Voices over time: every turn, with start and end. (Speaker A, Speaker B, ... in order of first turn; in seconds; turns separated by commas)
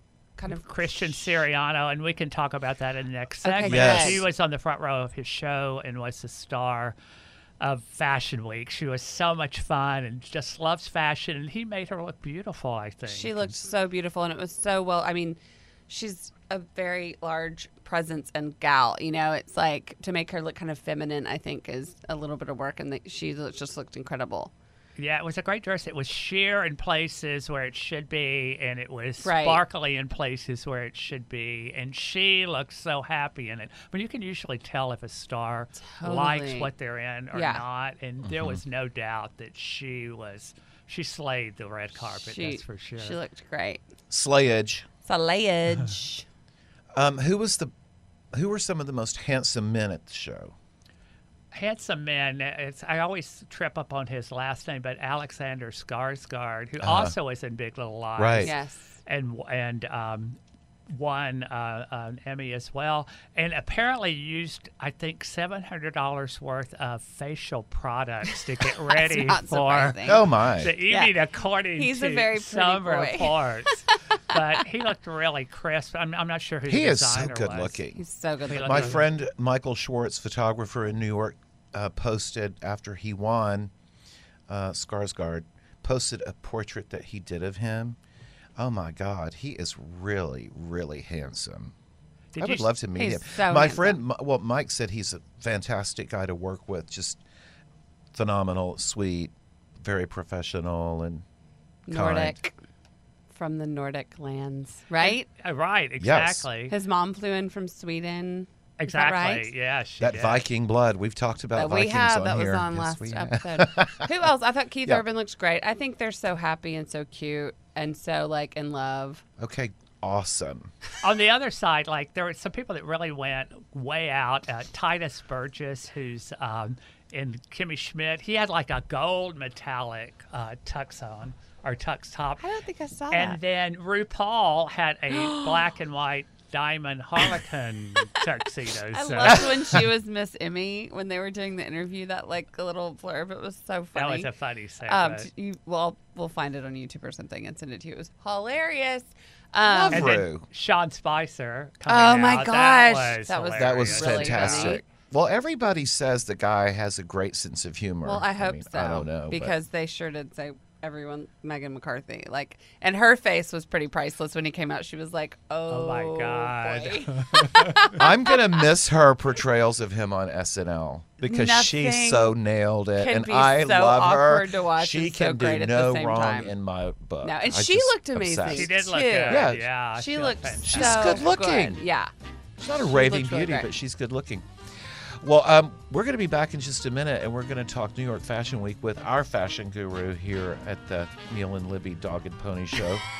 Speaker A: 0.4-1.3, Speaker B: 0.5-7.0, Speaker A: 3.4-4.2, Speaker C: 3.6-4.2, Speaker B: 7.6-13.5, Speaker A: 13.1-24.5, Speaker B: 25.0-43.2, Speaker A: 29.2-29.6, Speaker A: 35.8-36.7, Speaker A: 37.3-37.6, Speaker C: 38.2-38.6, Speaker A: 42.1-43.8, Speaker C: 44.1-44.9, Speaker A: 45.0-46.3, Speaker C: 47.0-47.7, Speaker C: 48.3-50.5, Speaker B: 51.5-60.4, Speaker C: 56.8-57.1, Speaker C: 58.2-58.5, Speaker A: 58.4-58.9, Speaker B: 60.9-77.8, Speaker A: 68.9-70.3, Speaker C: 70.0-70.7, Speaker A: 70.8-71.2, Speaker A: 71.8-73.4, Speaker C: 76.7-78.0, Speaker A: 78.0-79.0, Speaker B: 78.5-79.1, Speaker C: 78.5-83.7, Speaker C: 84.5-88.0, Speaker C: 88.6-91.7, Speaker B: 92.3-92.7, Speaker C: 92.4-97.2, Speaker A: 93.0-94.0, Speaker C: 98.1-101.2, Speaker A: 101.9-102.5, Speaker C: 101.9-102.4, Speaker A: 103.3-105.3, Speaker B: 105.0-106.7, Speaker C: 106.0-106.5, Speaker A: 106.7-109.5, Speaker B: 108.8-110.5, Speaker C: 110.0-114.1, Speaker A: 111.5-119.2, Speaker C: 119.4-120.7, Speaker B: 121.0-132.4, Speaker A: 132.4-133.4, Speaker B: 133.1-139.5, Speaker A: 135.1-135.7, Speaker A: 138.9-144.3, Speaker B: 143.9-145.3, Speaker A: 144.8-150.2, Speaker C: 149.7-150.5, Speaker B: 149.9-154.8, Speaker A: 151.9-154.8, Speaker C: 153.6-159.6, Speaker A: 158.0-168.3, Speaker B: 165.7-167.9, Speaker C: 168.0-178.7, Speaker A: 171.2-172.4, Speaker A: 173.0-176.5, Speaker A: 177.2-182.1, Speaker B: 178.5-181.2, Speaker C: 179.3-179.7, Speaker C: 180.7-181.8, Speaker C: 182.6-184.5, Speaker A: 182.9-183.7, Speaker C: 185.2-193.1